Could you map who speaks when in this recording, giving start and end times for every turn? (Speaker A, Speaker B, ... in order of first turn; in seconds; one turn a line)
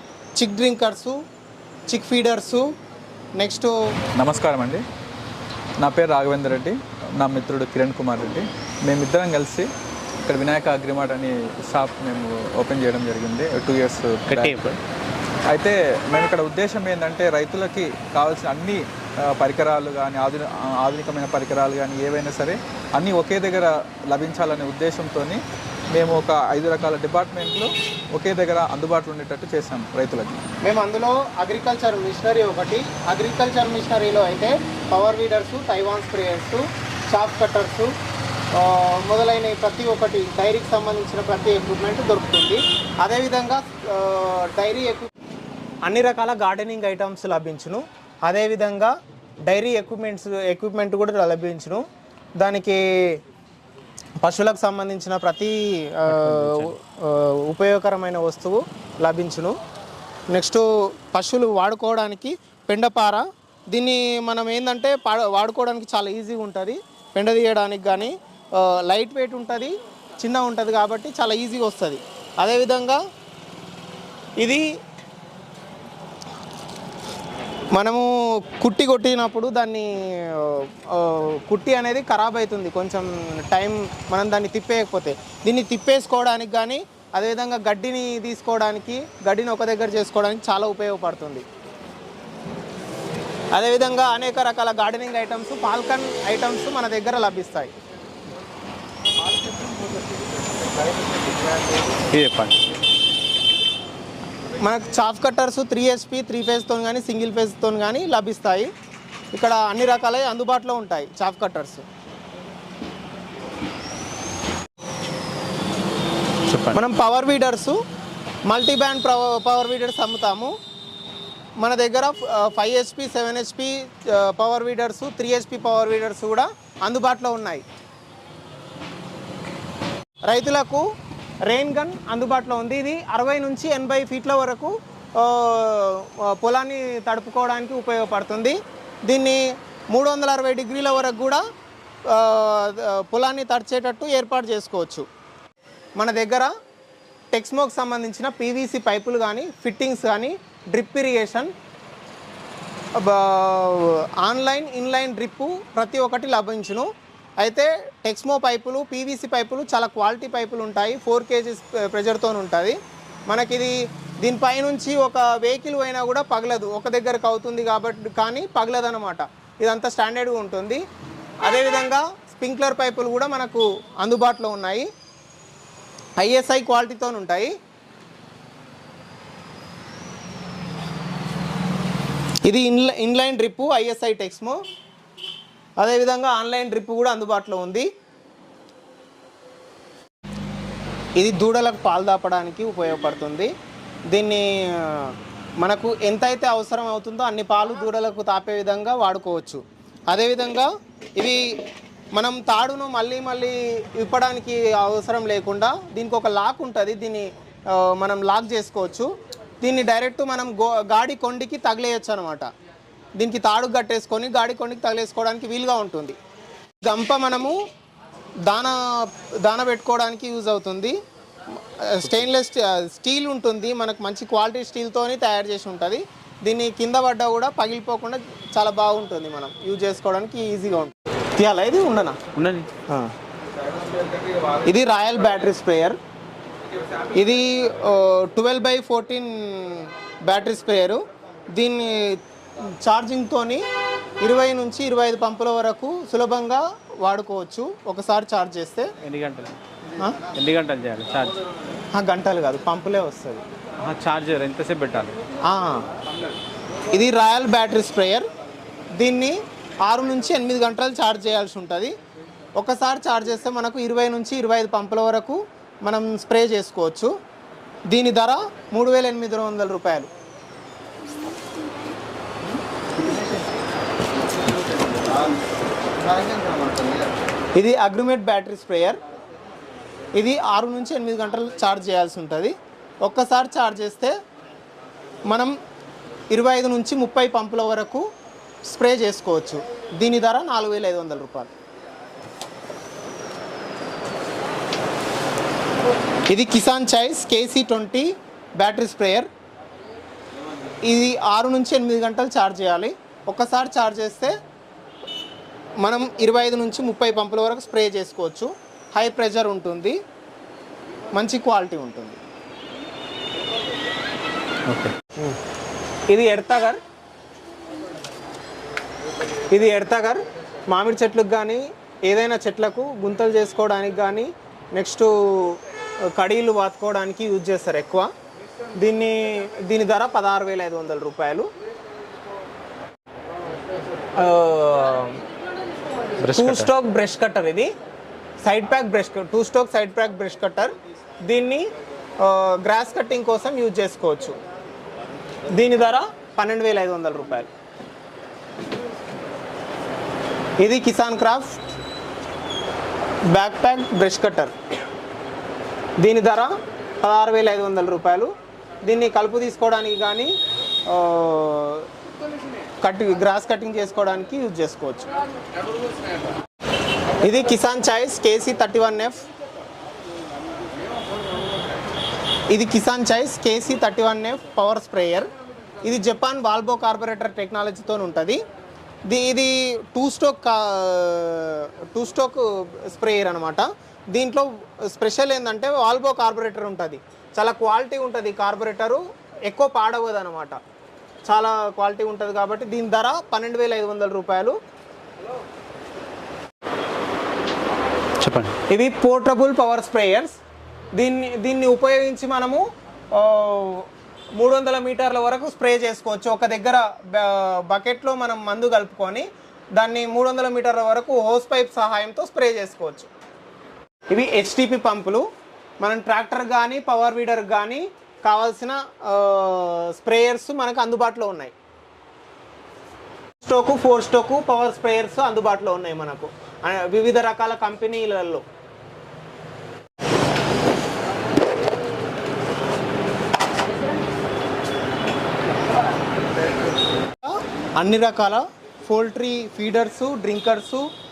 Speaker A: 0.3-1.2
Speaker A: 1.9-2.7
Speaker A: 3.4-3.7
Speaker B: 4.1-4.8
Speaker B: 5.8-9.7
Speaker B: 10.2-14.6
Speaker C: 14.3-14.8
Speaker B: 15.5-18.8
Speaker B: 19.3-25.4
Speaker B: 25.9-30.4
Speaker A: 30.6-37.9
Speaker A: 38.5-45.1
Speaker A: 45.8-48.9
Speaker A: 49.5-51.8
Speaker A: 52.4-52.8
Speaker A: 54.2-59.5
Speaker B: 56.1-56.7
Speaker A: 60.3-73.0
Speaker A: 77.7-91.4
Speaker A: 93.5-97.7
Speaker C: 101.9-102.5
Speaker A: 104.6-108.7
Speaker A: 109.3-111.8
Speaker C: 116.5-116.8
Speaker A: 116.7-117.8
Speaker A: 118.5-120.5
Speaker A: 121.6-127.6
Speaker A: 130.3-130.8
Speaker A: 131.5-138.6
Speaker A: 139.1-139.4
Speaker A: 139.9-141.4
Speaker A: 142.1-145.0
Speaker A: 146.0-146.5
Speaker A: 147.3-151.5
Speaker A: 153.0-156.9
Speaker A: 157.4-162.7
Speaker A: 163.3-170.8
Speaker A: 171.4-174.9
Speaker A: 176.2-177.5
Speaker A: 182.4-184.6
Speaker A: 185.8-187.9
Speaker A: 191.2-193.5
Speaker A: 194.1-201.4
Speaker A: 202.1-209.1
Speaker A: 209.6-212.4
Speaker A: 213.2-216.1
Speaker A: 216.8-217.6
Speaker A: 218.4-220.9
Speaker A: 221.7-232.2
Speaker C: 232.3-232.7
Speaker A: 234.6-236.0
Speaker A: 237.1-242.2
Speaker A: 242.8-243.6
Speaker A: 244.2-248.9
Speaker C: 249.0-249.6
Speaker C: 250.2-251.4
Speaker A: 251.9-253.4
Speaker C: 253.8-255.2
Speaker A: 255.5-255.8
Speaker A: 256.9-258.3
Speaker A: 259.0-261.9
Speaker A: 262.6-267.1
Speaker A: 267.9-270.1
Speaker A: 277.6-279.0
Speaker A: 280.1-284.1
Speaker A: 286.3-288.0
Speaker A: 288.7-291.5
Speaker A: 296.3-299.3
Speaker A: 300.9-304.3
Speaker A: 305.8-309.9
Speaker A: 311.1-312.2
Speaker C: 314.7-314.9
Speaker A: 316.1-316.8
Speaker A: 319.5-325.6
Speaker A: 326.1-328.1
Speaker A: 328.8-331.5
Speaker A: 334.2-335.2
Speaker C: 336.2-336.7
Speaker A: 336.3-337.7
Speaker A: 338.4-340.7
Speaker A: 341.2-341.6
Speaker A: 342.2-344.4
Speaker A: 345.5-347.5
Speaker A: 350.6-351.6
Speaker A: 353.3-354.5
Speaker A: 356.0-360.4
Speaker A: 360.9-361.9
Speaker A: 362.8-365.1
Speaker A: 367.2-369.2
Speaker A: 372.5-375.3
Speaker A: 375.8-378.4
Speaker A: 379.1-390.6
Speaker A: 391.2-394.6
Speaker C: 398.2-398.5
Speaker A: 398.7-400.4
Speaker A: 400.9-413.1
Speaker A: 414.1-415.2
Speaker A: 415.8-421.5
Speaker A: 423.4-428.4
Speaker A: 437.2-440.9